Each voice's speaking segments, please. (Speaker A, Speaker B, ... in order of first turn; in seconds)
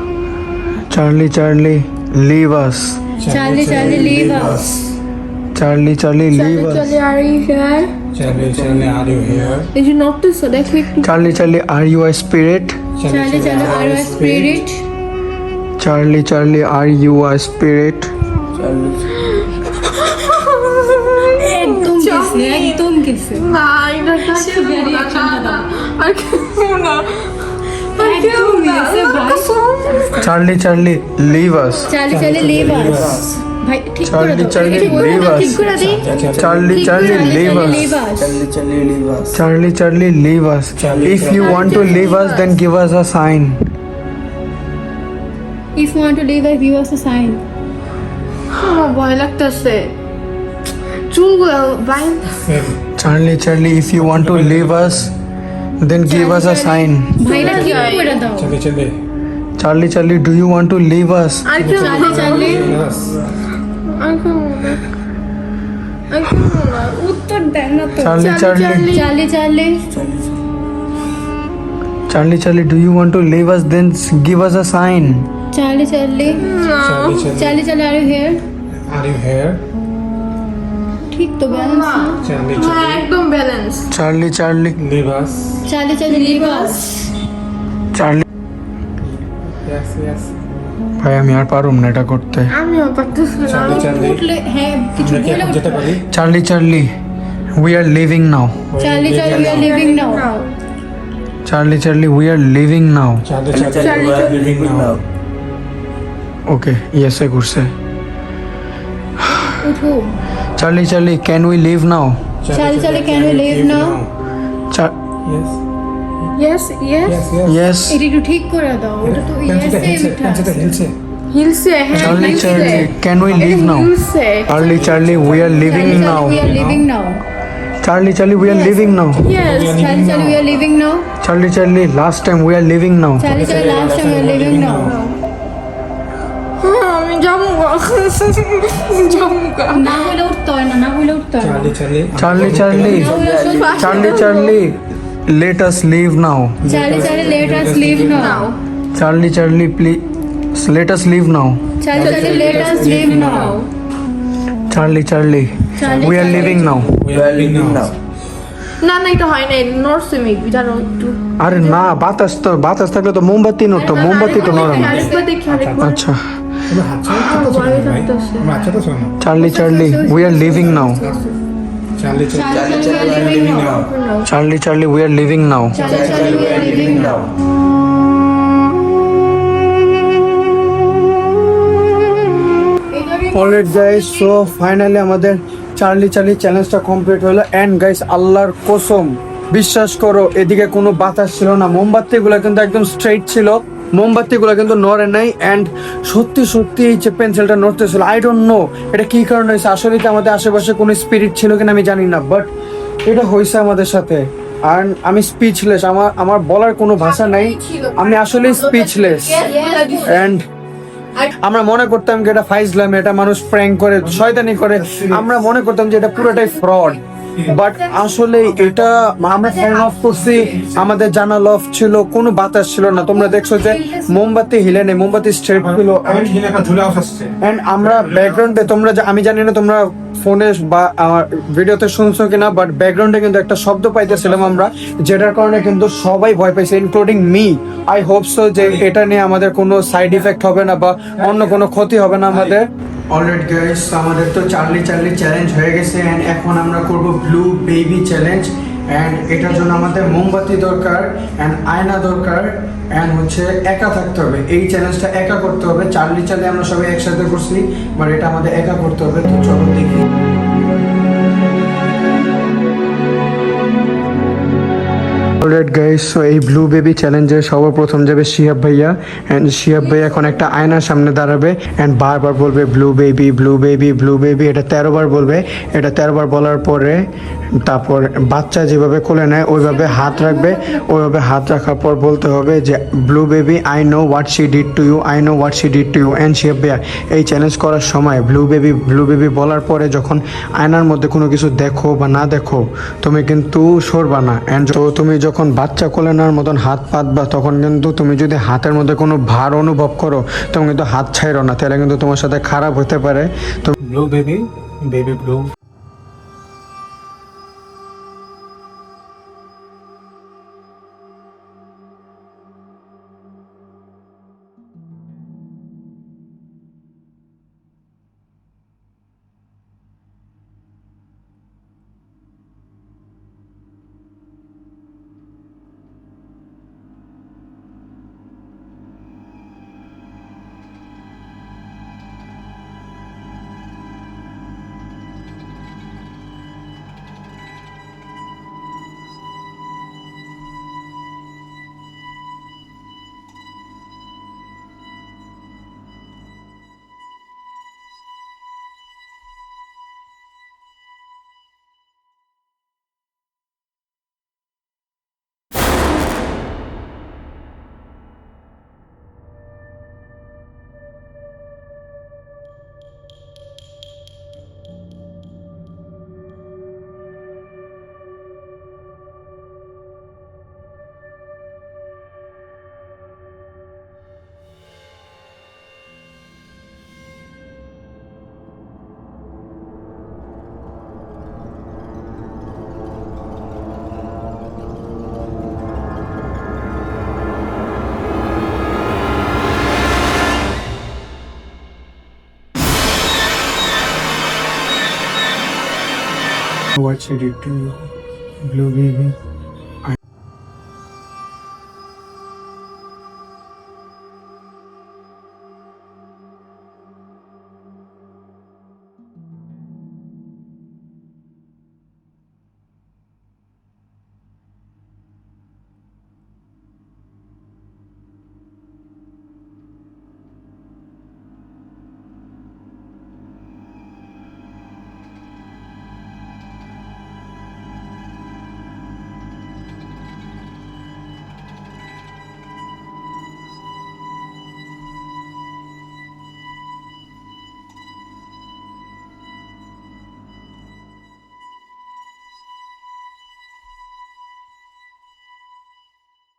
Speaker A: 0.9-3.0, 5.5-6.9, 11.0-12.8, 15.8-18.1, 30.2-32.0, 34.0-35.7, 36.4-37.9, 39.3-43.6, 53.0-55.1, 55.8-57.2, 59.6-61.5, 68.0-69.0, 72.1-75.3, 83.9-84.8, 87.9-88.2, 91.0-92.5, 96.1-96.9, 97.6-98.6, 101.5-103.2, 106.5-107.7, 110.6-112.2, 117.5-118.0, 122.0-123.9, 124.5-126.5, 127.8-129.2, 131.2-133.3, 142.2-143.1, 143.8-146.7, 148.9-151.7, 154.7-156.9, 161.4-165.0, 165.8-166.3, 169.2-171.0, 174.3-175.8, 183.3-202.5, 203.1-209.5, 210.0-210.4, 211.4-226.5, 227.4-260.1, 265.4-303.7, 396.8-397.9, 398.4-399.2
Speaker B: 3.2-4.8, 8.1-9.7, 13.0-14.7, 32.1-33.3, 35.9-38.0, 40.8-41.9, 52.4-52.8, 53.9-55.1, 57.3-59.0, 61.6-63.3, 76.8-77.6, 78.9-79.6, 82.2-83.1, 84.8-85.6, 89.0-90.4, 93.5-94.3, 95.0-96.0, 98.7-99.8, 103.2-105.0, 112.4-114.1, 115.2-115.6, 117.0-117.7, 119.0-121.0, 124.5-126.9, 129.0-130.6, 133.3-135.0, 141.4-143.2, 146.6-148.5, 151.9-153.6, 155.8-157.9, 164.5-166.0, 166.7-169.2, 170.8-171.2, 172.0-173.4, 175.8-177.2, 214.9-215.2, 226.1-227.3, 227.9-228.3, 234.1-234.6, 241.2-241.6, 303.8-305.5
Speaker C: 3.2-4.7, 13.1-14.8, 21.4-23.5, 24.2-25.7, 28.0-30.4, 31.9-36.1, 36.8-38.4, 45.8-47.4, 57.2-58.5, 61.7-62.8, 66.9-69.8, 75.5-76.5, 77.3-78.4, 81.1-82.3, 85.7-86.9, 93.7-96.0, 98.8-100.3, 109.6-110.1, 112.5-114.0, 117.9-120.8, 121.9-122.9, 125.5-127.2, 129.7-131.1, 133.2-135.0, 139.7-141.8, 142.4-144.3, 146.6-148.5, 151.8-153.6, 155.8-156.8, 164.0-165.2, 169.3-171.2, 172.3-173.8, 175.7-177.2, 182.9-184.5, 209.3-210.3, 219.5-219.9, 223.0-224.2, 249.6-249.9, 270.0-270.6, 279.6-280.9
Speaker D: 3.7-4.7, 8.2-9.7, 13.3-14.5, 18.5-19.1, 32.2-33.4, 36.0-36.9, 38.1-39.4, 40.8-42.1, 62.4-63.4, 69.9-70.4, 99.3-99.7, 103.5-105.0, 133.3-134.3, 142.8-144.0, 146.9-147.7, 152.0-153.2, 155.8-157.9, 172.4-173.9, 175.8-177.3
Speaker E: 6.3-7.9, 9.7-11.1, 19.3-30.3, 34.6-37.7, 41.3-42.6, 48.5-49.9, 51.1-52.5, 56.0-58.2, 61.5-62.8, 63.9-64.8, 66.1-67.0, 68.2-69.1, 76.3-77.3, 81.5-83.9, 86.1-87.0, 92.5-94.1, 99.4-100.6, 103.6-104.5, 116.4-117.3, 121.3-124.8, 128.4-129.8, 134.8-135.2, 136.6-140.1, 143.4-144.6, 148.0-148.6, 152.0-153.7, 158.8-161.7, 163.7-166.0, 167.1-168.7, 171.0-171.3, 173.2-174.3, 176.1-177.0, 207.0-210.4, 217.5-218.1